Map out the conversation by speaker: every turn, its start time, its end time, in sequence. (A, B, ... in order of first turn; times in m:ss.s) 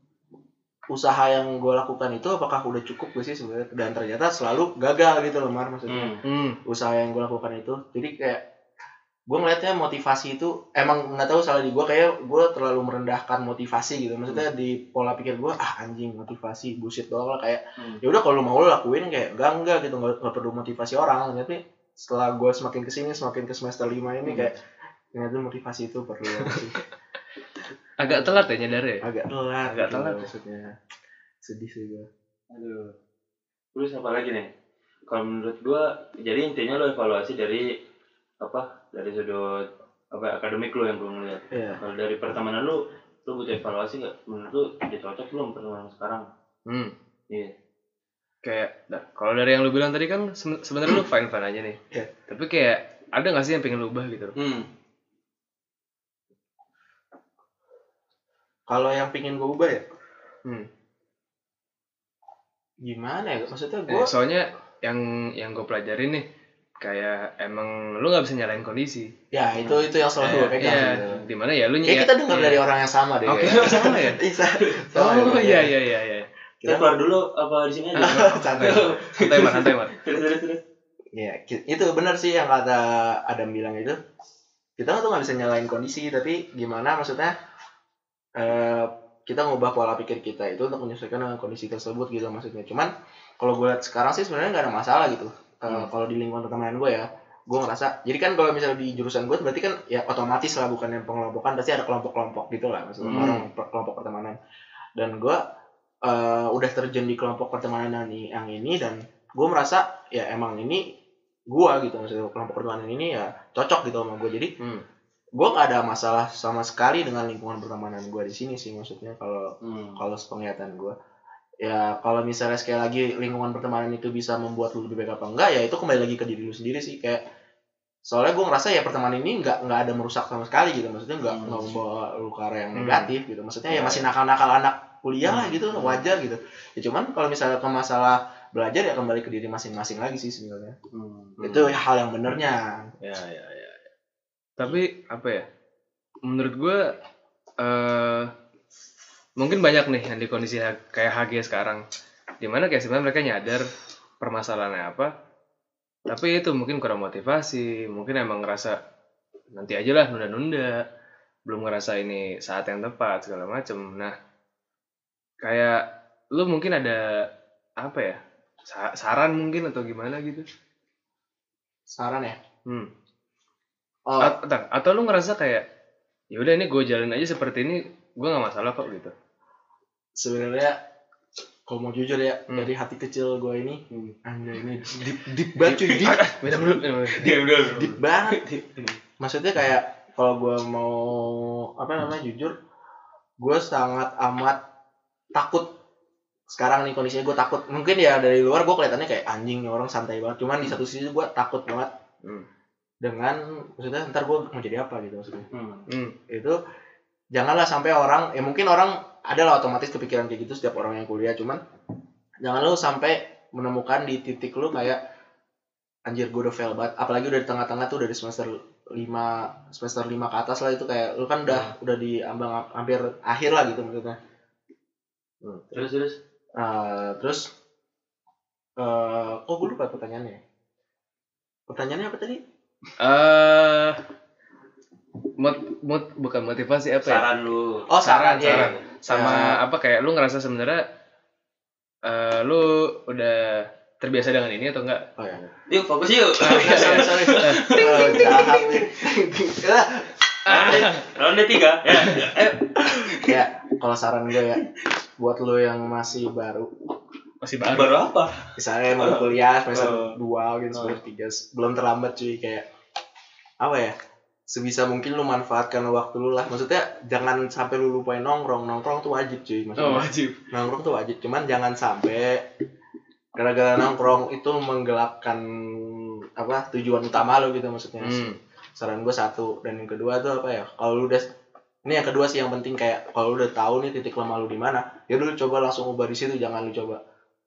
0:00.9-0:08.4 A
0:05.9-0:06.2 B
0:06.2-0:06.6 C
0:09.3-0:24.6 A
0:25.1-0:26.8 A
0:28.0-0:29.0 C
0:28.1-0:28.5 A
0:29.0-0:30.8 A
0:29.7-0:30.3 C
0:31.4-0:32.1 A
0:32.5-0:33.0 B
0:33.7-0:34.5 B
0:35.1-0:37.7 B
0:38.4-0:46.3 B
0:41.5-0:41.8 A
0:46.7-0:46.9 C
0:47.3-0:47.6 B
0:48.4-0:54.4 C
0:58.7-0:59.9 A
1:02.8-1:04.1 A
1:03.9-1:06.3 C
1:06.8-1:09.1 C
1:09.3-1:11.2 A
1:10.2-1:12.6 C
1:11.8-1:15.8 A
1:13.3-1:14.2 C
1:13.5-1:14.0 B
1:15.0-1:16.3 C
1:16.6-1:17.0 A
1:16.6-1:20.6 B
1:18.0-1:19.0 A
1:18.0-1:20.0 C
1:21.2-1:24.0 A
1:24.8-1:27.4 A
1:28.4-1:44.4 A
1:43.1-1:43.4 B
1:43.1-1:43.4 C
1:45.0-1:45.4 A
1:46.0-1:50.9 A
1:51.5-1:54.5 A
1:55.4-2:01.0 A
1:59.6-2:00.0 B
2:01.6-2:07.2 A
2:08.1-2:20.8 A
2:11.3-2:11.6 B
2:12.8-2:13.1 C
2:15.3-2:15.8 C
2:20.9-2:21.7 B
2:21.4-2:22.9 A
2:23.3-2:23.6 B
2:24.6-2:25.5 C
2:26.2-2:26.9 C
2:27.6-2:28.3 C
2:29.4-2:31.8 C
2:32.4-2:33.7 C
2:34.2-2:35.1 C
2:36.1-2:38.8 C
2:39.5-2:40.8 C
2:41.5-2:44.2 C
2:45.4-2:47.2 C
2:47.8-2:50.5 C
2:51.9-2:52.4 A
2:54.1-2:54.4 A
2:54.2-2:55.6 C
2:56.3-2:59.1 C
3:00.2-3:00.8 A
3:01.7-3:06.2 A
3:05.6-3:07.4 C
3:07.1-3:09.0 B
3:07.7-3:08.4 A
3:09.2-3:12.6 A
3:13.4-3:14.6 A
3:15.4-3:15.7 A
3:16.5-3:21.9 A
3:23.0-3:25.5 A
3:25.5-3:25.9 B
3:25.9-3:26.2 C
3:26.3-3:26.6 A
3:27.4-3:31.6 A
3:32.4-3:35.0 A
3:36.1-3:44.2 A
3:45.5-3:45.9 A
3:45.7-3:46.2 B
3:46.6-3:47.5 A
3:48.8-3:50.4 A
3:51.7-3:52.4 A
3:53.0-3:54.0 C
3:55.4-3:57.3 C
3:57.0-3:57.9 B
3:57.9-3:59.6 A
3:58.0-4:00.8 C
3:58.4-3:58.8 B
4:02.1-4:05.1 C
4:05.2-4:05.5 A
4:05.7-4:08.9 B
4:06.4-4:07.8 C
4:06.4-4:10.8 A
4:10.5-4:11.1 C
4:10.5-4:13.4 B
4:13.1-4:14.6 A
4:15.2-4:16.7 A
4:17.4-4:18.0 C
4:17.6-4:18.4 B
4:18.6-4:22.7 A
4:19.0-4:20.2 B
4:20.7-4:21.0 B
4:23.6-4:24.0 A
4:24.5-4:32.5 A
4:29.8-4:30.4 C
4:33.4-4:41.2 A
4:38.0-4:38.4 C
4:41.9-4:47.0 A